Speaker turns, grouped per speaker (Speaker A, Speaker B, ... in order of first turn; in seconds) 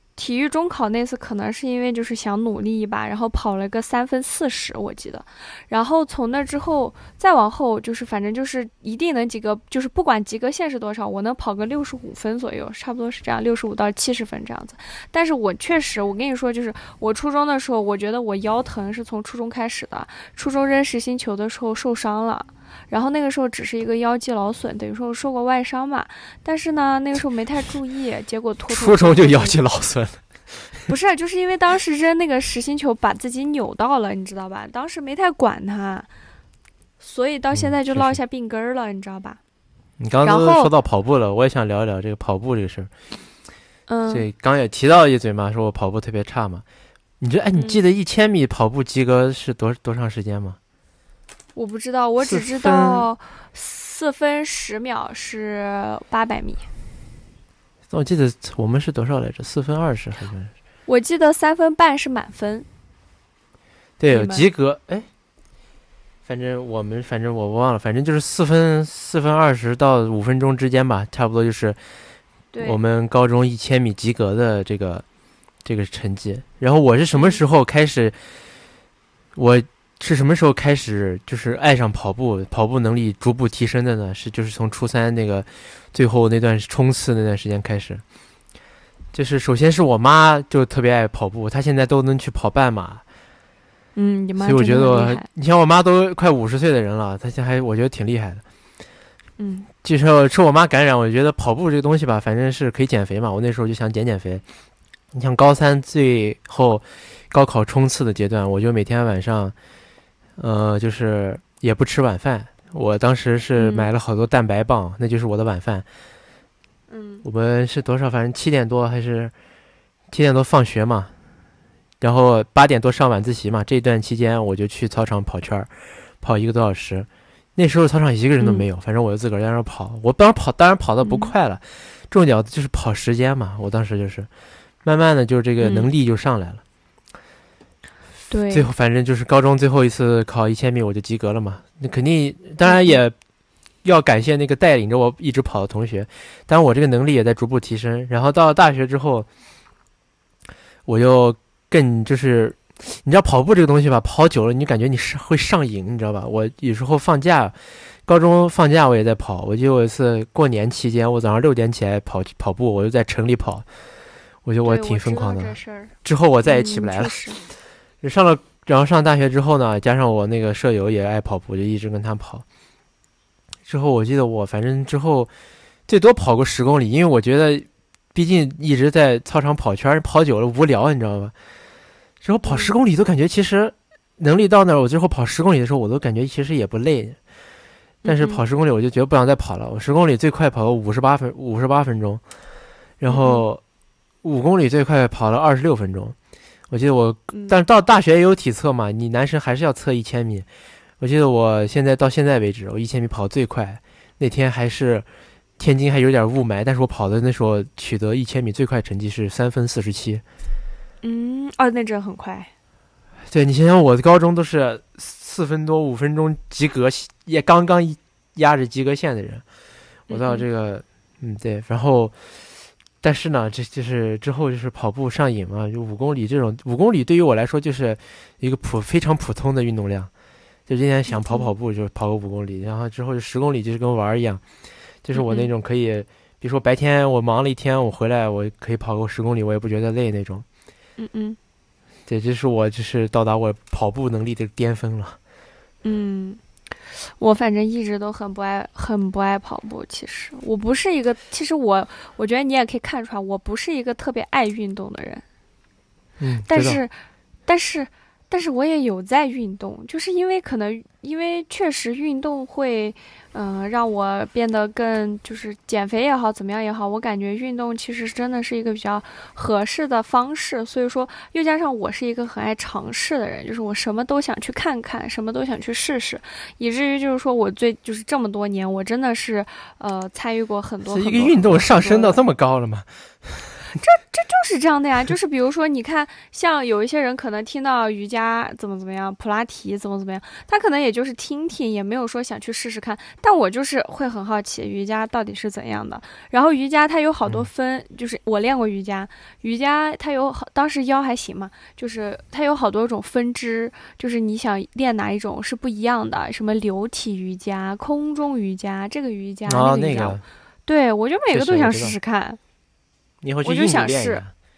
Speaker A: 0.2-29.6, 30.9-36.1, 37.0-39.4, 40.2-40.7, 43.9-44.2, 47.5-47.8, 51.5-56.7, 60.9-62.7, 64.1-64.4, 77.1-77.4, 94.0-95.3, 99.4-99.7, 113.6-113.9, 116.9-117.2, 128.4-128.7, 131.0-131.3, 135.6-135.9, 138.3-138.7, 142.6-143.0, 164.6-165.9, 166.4-167.4, 182.4-182.7, 188.0-188.4, 193.1-193.4, 211.0-212.5, 220.1-220.4, 231.1-231.5, 235.1-235.5, 241.0-241.4, 245.8-246.4, 246.9-255.2, 256.5-256.9, 257.5-282.2, 283.7-312.4, 313.4-314.2
Speaker B: 28.7-30.9, 37.5-38.2, 40.0-42.9, 44.1-46.6, 47.2-50.6, 52.2-53.1, 57.9-60.5, 64.0-65.1, 66.2-71.8, 72.6-75.0, 75.6-78.2, 79.3-88.0, 89.1-93.0, 94.4-98.4, 99.8-104.4, 105.1-109.5, 110.4-115.8, 117.2-119.3, 120.1-121.1, 122.0-125.7, 126.2-134.3, 134.8-136.6, 138.5-143.1, 143.8-149.3, 150.8-163.7, 164.4-167.2, 168.0-172.4, 173.7-175.3, 175.9-181.3, 182.2-187.2, 188.1-192.2, 193.0-193.6, 194.2-196.2, 196.7-200.5, 201.0-205.1, 205.6-210.2, 213.3-219.4, 220.1-222.1, 223.0-230.1, 230.7-234.4, 235.0-240.4, 242.1-245.2, 256.2-256.8, 280.9-283.5, 309.5-310.2, 311.3-311.9, 313.2-314.3